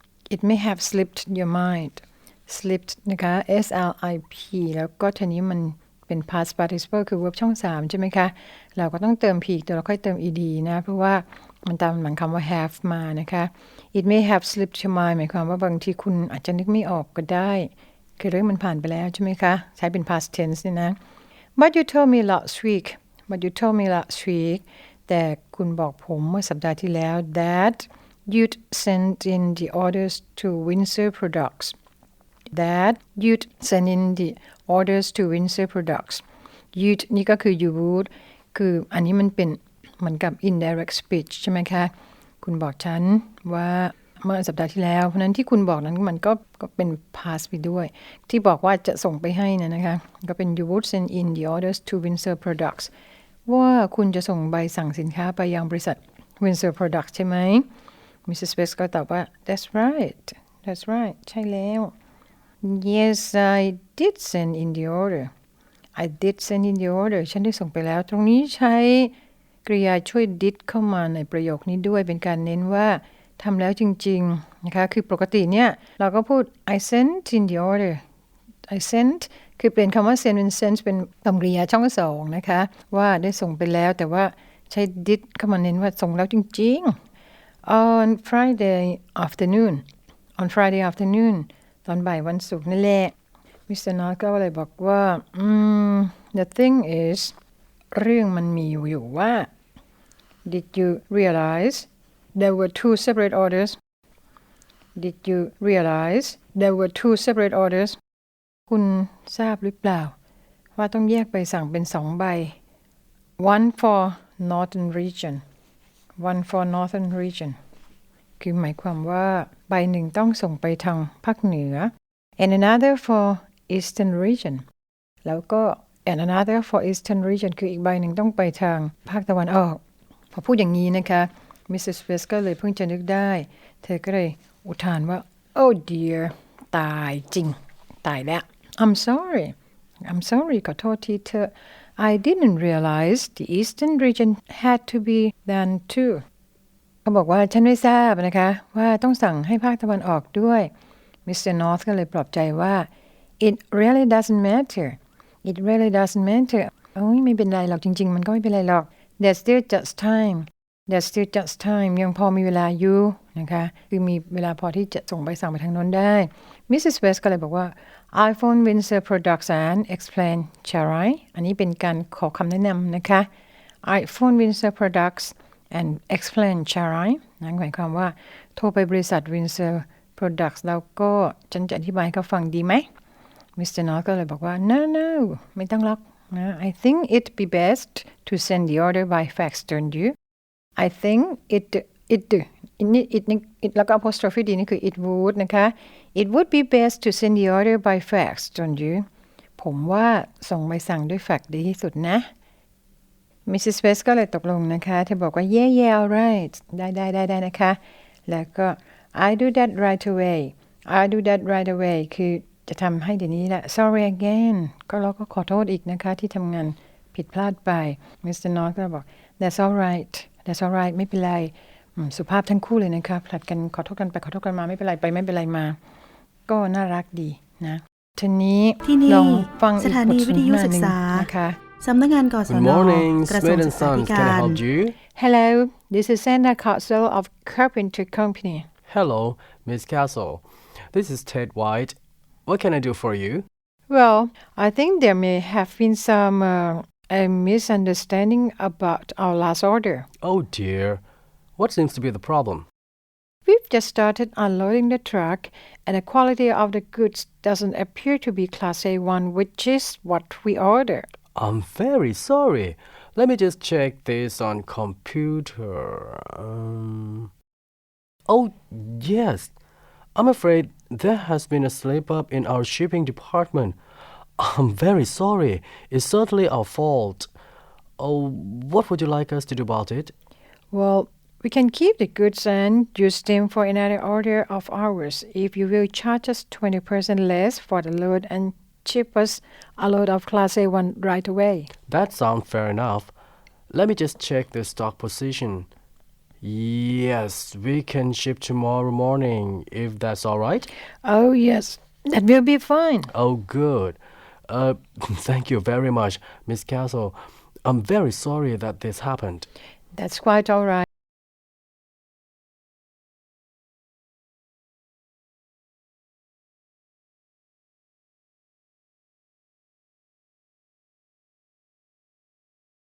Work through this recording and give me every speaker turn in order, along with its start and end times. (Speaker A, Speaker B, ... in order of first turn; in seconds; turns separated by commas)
Speaker A: 0.3-21.0, Speaker A: 21.6-31.7, Speaker A: 32.5-52.9, Speaker A: 53.5-57.6, Speaker A: 58.2-61.9, Speaker A: 62.6-65.3, Speaker A: 66.0-69.1, Speaker A: 69.6-78.0, Speaker A: 78.7-87.0, Speaker A: 87.7-89.8, Speaker A: 90.4-93.1, Speaker A: 93.7-97.3, Speaker A: 97.9-99.5, Speaker A: 100.5-103.8, Speaker A: 105.0-108.0, Speaker A: 108.7-110.1, Speaker A: 110.8-112.6, Speaker A: 113.4-115.4, Speaker A: 116.2-117.6, Speaker A: 118.4-124.6, Speaker A: 125.2-129.8, Speaker A: 130.3-146.2, Speaker A: 147.0-150.7, Speaker A: 151.2-152.9, Speaker A: 153.4-173.3, Speaker A: 173.8-182.9, Speaker A: 183.6-190.2, Speaker A: 190.8-199.1, Speaker A: 199.6-202.3, Speaker A: 203.4-225.8, Speaker A: 226.5-231.6, Speaker B: 228.8-231.3, Speaker B: 231.8-234.6, Speaker C: 232.5-234.9, Speaker A: 235.1-238.7, Speaker C: 238.9-243.4, Speaker A: 243.9-250.1, Speaker C: 250.2-251.0, Speaker C: 251.6-252.7, Speaker A: 253.4-261.1, Speaker C: 261.3-267.3, Speaker C: 268.3-269.5, Speaker C: 270.1-273.8, Speaker C: 274.4-277.3, Speaker C: 278.0-280.1, Speaker A: 280.7-291.7, Speaker C: 291.9-293.1, Speaker C: 293.7-295.7, Speaker C: 296.4-300.7, Speaker A: 301.0-303.1, Speaker C: 303.1-309.5, Speaker A: 309.9-310.8